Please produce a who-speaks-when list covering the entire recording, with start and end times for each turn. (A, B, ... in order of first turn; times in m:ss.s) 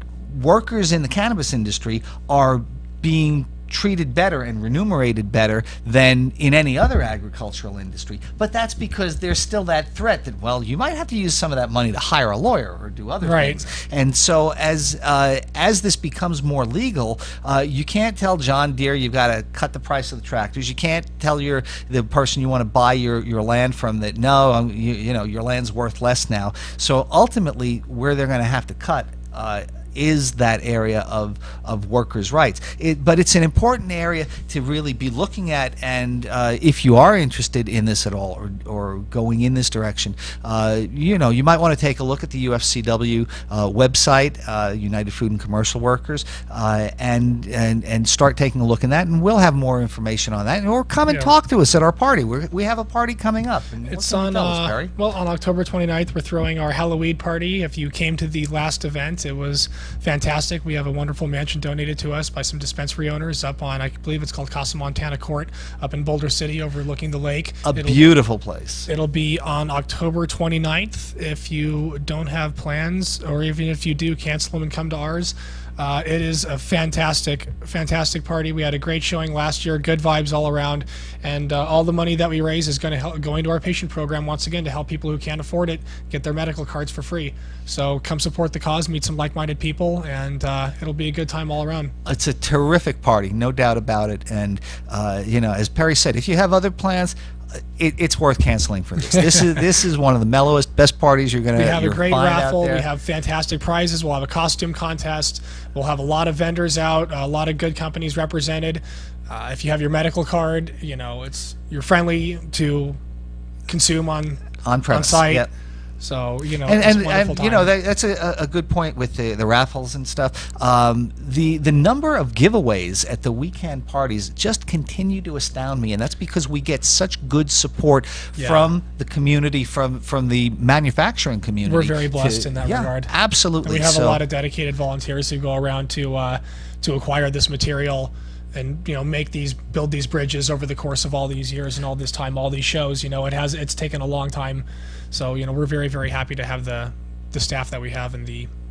0:00.3-0:54.9 A
0:13.2-0:13.6 B
0:53.9-1:08.2 B
1:07.6-1:08.9 A
1:08.9-1:31.9 B
1:32.0-1:37.2 A
1:37.8-1:42.9 A
1:41.6-1:53.0 B
1:53.7-1:55.5 B
1:54.6-1:55.5 A
1:56.0-1:57.7 B
1:56.7-2:14.2 A
2:08.4-2:08.7 B
2:11.6-2:13.1 B
2:13.6-2:28.5 B